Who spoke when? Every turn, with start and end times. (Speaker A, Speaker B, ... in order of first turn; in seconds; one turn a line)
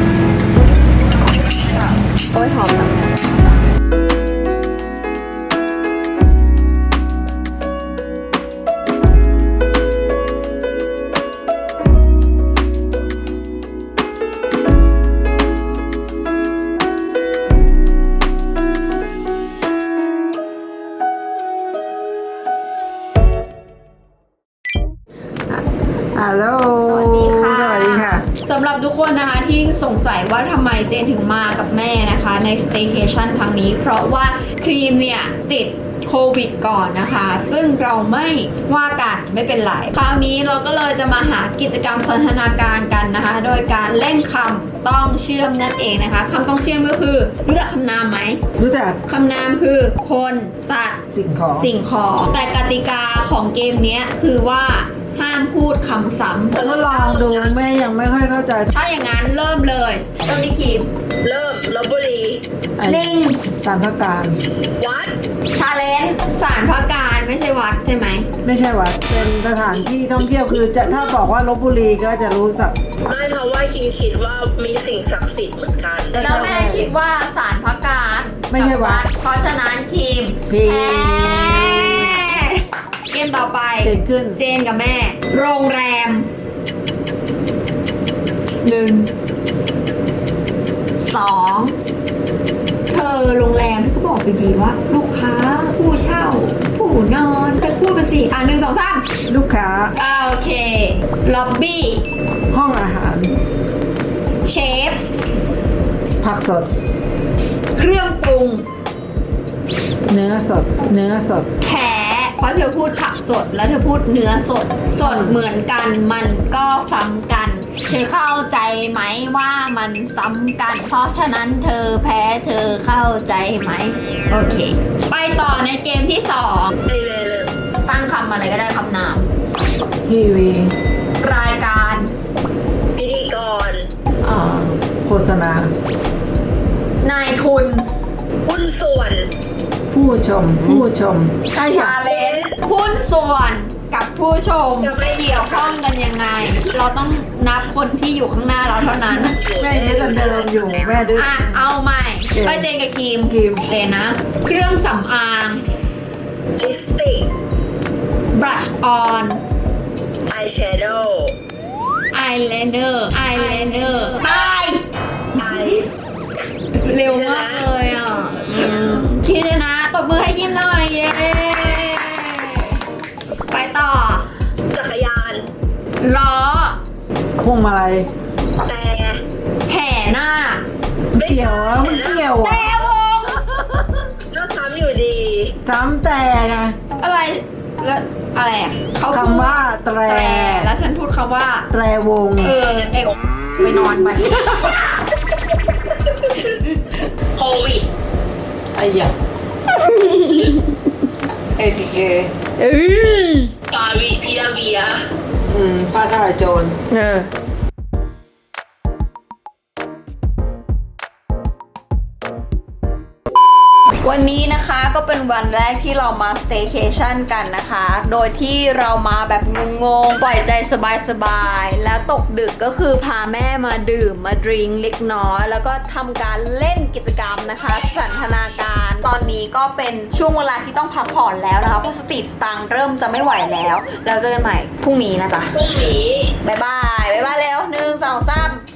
Speaker A: 1.5-3.6
Speaker B: 25.5-28.3
Speaker A: 26.7-48.4
Speaker B: 48.6-49.0
Speaker A: 49.1-51.0
Speaker B: 51.1-51.7
Speaker A: 51.6-56.6
Speaker C: 56.5-57.6
Speaker B: 56.6-58.7
Speaker A: 58.7-60.9
Speaker C: 61.2-62.4
Speaker B: 62.8-64.4
Speaker A: 62.8-63.4
Speaker C: 64.8-65.1
Speaker A: 65.5-68.3
Speaker B: 68.4-72.8
Speaker C: 73.1-76.4
Speaker B: 76.1-76.9
Speaker A: 76.2-86.3
Speaker B: 78.5-79.1
Speaker B: 80.5-82.4
Speaker B: 83.8-84.4
Speaker A: 88.6-89.1
Speaker A: 90.9-91.8
Speaker A: 92.9-99.1
Speaker B: 99.3-100.0
Speaker A: 99.9-102.1
Speaker B: 102.5-103.4
Speaker A: 104.4-105.0
Speaker B: 106.2-106.7
Speaker A: 107.8-108.6
Speaker B: 110.1-111.5
Speaker A: 111.6-126.7
Speaker B: 115.0-115.4
Speaker C: 126.9-127.5
Speaker A: 127.8-129.3
Speaker B: 130.1-130.7
Speaker A: 131.2-132.1
Speaker C: 133.0-133.9
Speaker B: 134.2-135.7
Speaker A: 137.0-137.9
Speaker C: 138.4-139.3
Speaker B: 139.9-142.0
Speaker A: 141.5-149.4
Speaker C: 142.0-142.6
Speaker C: 144.8-145.8
Speaker C: 149.1-150.6
Speaker B: 149.5-151.6
Speaker A: 151.1-155.7
Speaker B: 152.3-152.7
Speaker B: 153.3-153.7
Speaker C: 156.6-157.3
Speaker A: 158.3-159.4
Speaker C: 160.3-161.3
Speaker A: 162.1-164.9
Speaker C: 165.4-165.9
Speaker A: 166.8-172.8
Speaker C: 166.9-167.7
Speaker A: 173.5-174.3
Speaker C: 174.7-175.5
Speaker A: 176.0-176.8
Speaker B: 177.4-178.1
Speaker C: 178.6-179.2
Speaker A: 179.7-180.7
Speaker C: 181.1-182.3
Speaker B: 181.1-182.8
Speaker A: 182.4-183.5
Speaker C: 184.3-185.6
Speaker B: 185.7-186.8
Speaker A: 187.0-191.7
Speaker B: 189.1-190.7
Speaker B: 191.7-192.6
Speaker A: 192.4-194.8
Speaker C: 196.1-196.6
Speaker C: 197.3-197.9
Speaker B: 198.7-199.2
Speaker A: 199.7-200.8
Speaker B: 201.6-202.3
Speaker A: 202.6-203.5
Speaker C: 203.7-205.1
Speaker B: 205.5-206.8
Speaker A: 206.9-207.3
Speaker A: 214.0-235.6
Speaker C: 235.6-236.3
Speaker A: 236.4-238.6